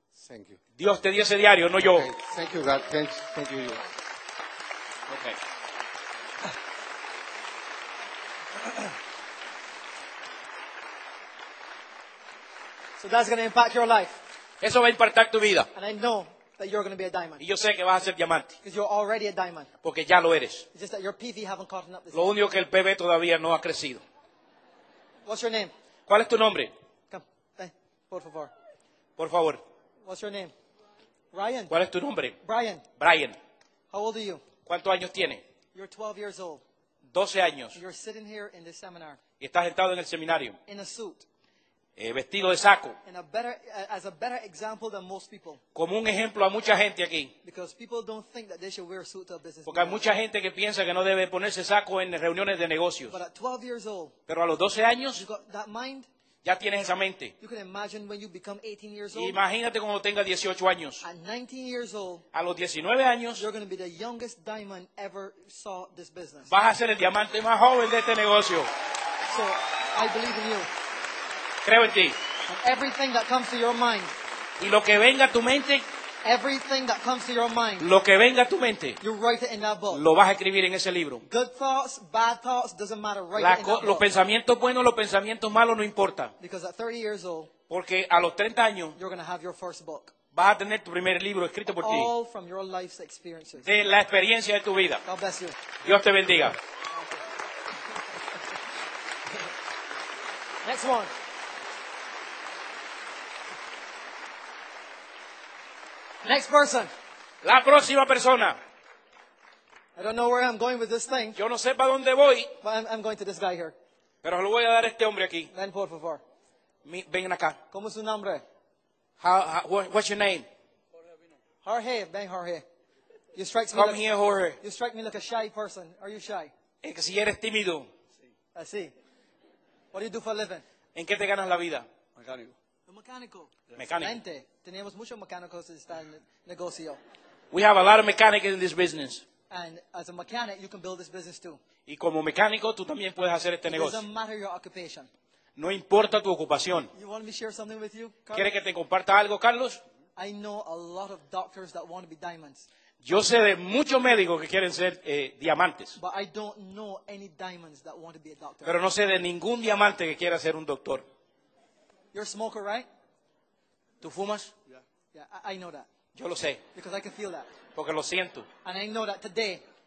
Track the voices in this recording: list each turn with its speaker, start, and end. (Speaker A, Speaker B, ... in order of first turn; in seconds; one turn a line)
Speaker A: 0.1-0.6
Speaker B: 0.8-2.1
Speaker A: 1.8-3.8
Speaker B: 5.1-5.4
Speaker C: 13.0-14.2
Speaker B: 14.6-15.7
Speaker C: 15.7-17.4
Speaker B: 17.4-18.6
Speaker C: 18.6-19.7
Speaker B: 19.8-20.6
Speaker C: 20.7-22.3
Speaker B: 22.1-24.0
Speaker C: 25.2-25.7
Speaker B: 26.1-26.7
Speaker C: 27.1-28.5
Speaker B: 29.2-29.6
Speaker C: 30.1-30.5
Speaker C: 31.3-31.7
Speaker B: 31.7-32.4
Speaker C: 32.4-32.8
Speaker B: 33.0-33.4
Speaker C: 33.9-34.4
Speaker B: 34.6-35.4
Speaker C: 35.7-36.6
Speaker B: 37.1-37.8
Speaker C: 37.7-39.2
Speaker B: 39.4-40.6
Speaker C: 40.7-41.2
Speaker B: 42.0-43.0
Speaker C: 43.0-45.6
Speaker B: 45.7-47.3
Speaker C: 47.4-50.1
Speaker B: 49.7-53.1
Speaker C: 53.1-54.1
Speaker B: 54.3-55.2
Speaker C: 55.1-56.1
Speaker B: 56.4-57.3
Speaker C: 57.4-59.4
Speaker B: 59.1-61.0
Speaker C: 61.0-62.2
Speaker B: 62.3-63.4
Speaker C: 63.4-66.5
Speaker B: 66.5-68.7
Speaker C: 69.3-70.7
Speaker B: 71.6-72.2
Speaker C: 72.5-74.1
Speaker B: 74.6-75.8
Speaker C: 76.2-77.9
Speaker B: 77.8-79.0
Speaker C: 79.0-80.0
Speaker B: 79.9-81.2
Speaker C: 81.2-84.0
Speaker B: 83.3-86.3
Speaker C: 86.4-87.5
Speaker B: 87.7-89.0
Speaker C: 89.0-90.1
Speaker B: 90.3-92.1
Speaker C: 91.8-93.7
Speaker B: 93.6-95.0
Speaker C: 95.0-95.5
Speaker B: 95.8-96.6
Speaker C: 100.6-101.1
Speaker C: 106.2-106.9
Speaker B: 107.4-108.6
Speaker C: 110.0-111.4
Speaker B: 111.3-112.5
Speaker C: 112.6-113.7
Speaker B: 114.2-115.5
Speaker C: 115.5-116.2
Speaker B: 116.8-117.6
Speaker C: 117.7-118.4
Speaker B: 119.2-120.5
Speaker C: 121.6-122.6
Speaker C: 123.3-124.0
Speaker B: 123.7-124.6
Speaker C: 124.6-126.5
Speaker B: 126.8-127.9
Speaker C: 128.5-128.9
Speaker C: 129.9-130.6
Speaker B: 130.9-131.8
Speaker A: 132.2-132.5
Speaker C: 132.9-137.0
Speaker B: 133.8-134.2
Speaker B: 137.5-139.2
Speaker C: 139.5-141.6
Speaker B: 141.9-144.0
Speaker C: 143.7-145.1
Speaker B: 145.6-146.9
Speaker C: 146.9-148.5
Speaker B: 148.3-149.8
Speaker C: 150.2-152.7
Speaker B: 153.0-156.0
Speaker C: 156.0-158.8
Speaker B: 158.6-161.0
Speaker C: 162.1-162.8
Speaker B: 164.0-164.5
Speaker C: 165.1-165.9
Speaker B: 166.1-166.6
Speaker C: 166.7-167.5
Speaker B: 167.7-168.5
Speaker C: 168.6-169.6